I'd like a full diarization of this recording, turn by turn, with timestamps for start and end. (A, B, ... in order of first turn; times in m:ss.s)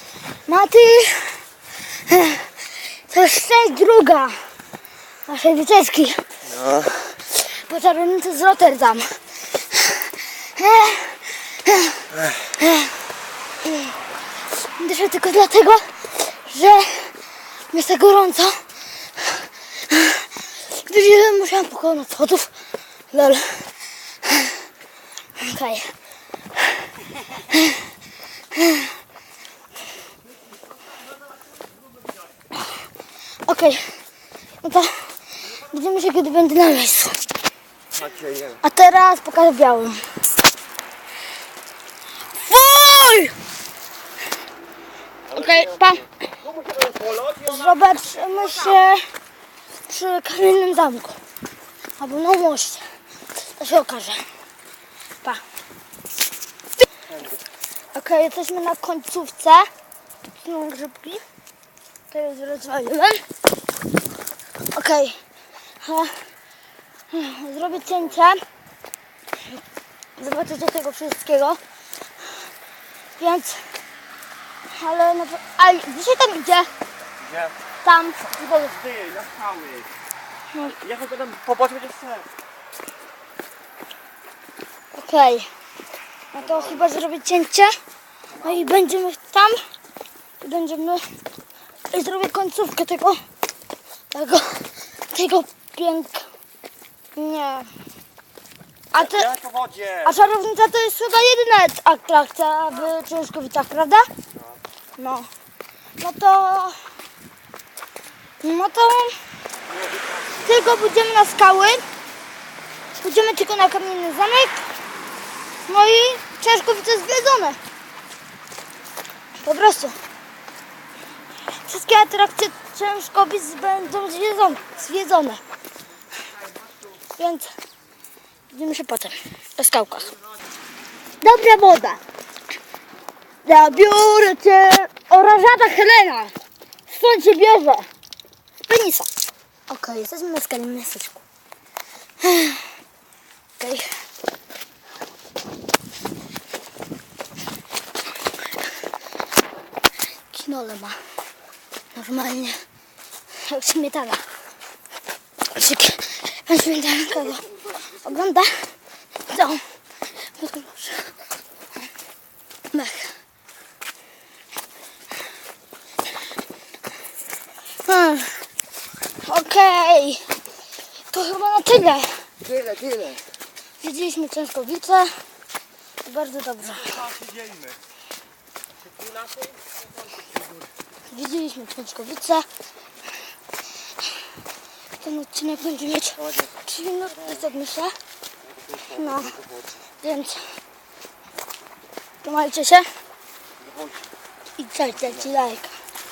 0:00.4-0:04.5 A
0:05.2-0:06.3 A
0:07.2-0:13.0 A
0:13.6-0:13.9 A
0:14.5-0:17.2 A
0:17.7-0:18.6 A
0:19.2-0:22.5 A
0:23.1-0:24.6 A
0:25.4-0:25.9 A
0:26.6-0:27.9 A
0:28.5-0:28.9 A
0:33.4-0:34.0 A
0:34.6-0:37.2 A
0:37.9-0:38.6 B
0:38.6-0:40.1 A
0:42.3-0:43.4 A
0:45.3-0:46.1 A
0:45.3-0:45.7 B
0:46.5-0:47.5 B
0:47.4-0:49.1 A
0:49.9-0:51.2 A
0:52.0-0:52.9 A
0:53.4-0:54.3 A
0:57.1-0:57.4 B
0:57.9-0:59.7 A
1:00.4-1:01.2 A
1:02.1-1:03.2 A
1:04.7-1:05.2 A
1:05.8-1:06.2 A
1:07.1-1:08.4 A
1:10.2-1:11.6 A
1:13.2-1:13.7 A
1:14.7-1:16.7 A
1:17.2-1:17.5 B
1:17.8-1:18.2 A
1:18.2-1:19.9 B
1:20.5-1:20.8 A
1:20.8-1:22.3 B
1:24.9-1:25.5 A
1:26.3-1:27.7 A
1:28.3-1:28.8 B
1:28.4-1:29.6 A
1:30.4-1:31.0 A
1:31.9-1:33.2 A
1:34.1-1:36.3 A
1:37.1-1:37.7 A
1:38.9-1:39.3 A
1:39.0-1:40.1 B
1:40.0-1:44.1 A
1:45.0-1:45.3 A
1:46.0-1:46.8 A
1:48.4-1:49.2 A
1:49.7-1:50.3 B
1:50.4-1:51.8 A
1:52.9-1:54.6 A
1:55.6-1:57.6 A
1:59.4-2:00.0 A
2:01.6-2:05.4 A
2:07.2-2:07.5 A
2:08.5-2:10.1 A
2:11.2-2:12.0 A
2:13.4-2:16.3 A
2:16.9-2:17.9 A
2:18.7-2:19.1 A
2:19.7-2:21.2 A
2:22.2-2:22.7 A
2:23.6-2:24.0 A
2:30.3-2:31.0 A
2:31.9-2:32.6 A
2:33.3-2:34.2 A
2:35.5-2:38.7 A
2:39.3-2:39.7 A
2:40.2-2:41.1 A
2:42.7-2:43.2 A
2:47.8-2:48.4 A
2:49.2-2:50.2 A
2:51.1-2:52.3 A
2:52.5-2:53.2 B
2:53.8-2:55.2 A
2:56.0-2:57.1 A
2:56.8-2:57.8 B
2:59.0-2:59.5 B
3:01.1-3:02.5 A
3:05.0-3:07.9 A
3:08.8-3:09.4 A
3:10.0-3:10.6 A
3:12.2-3:12.9 A
3:13.6-3:14.1 B
3:14.6-3:15.7 A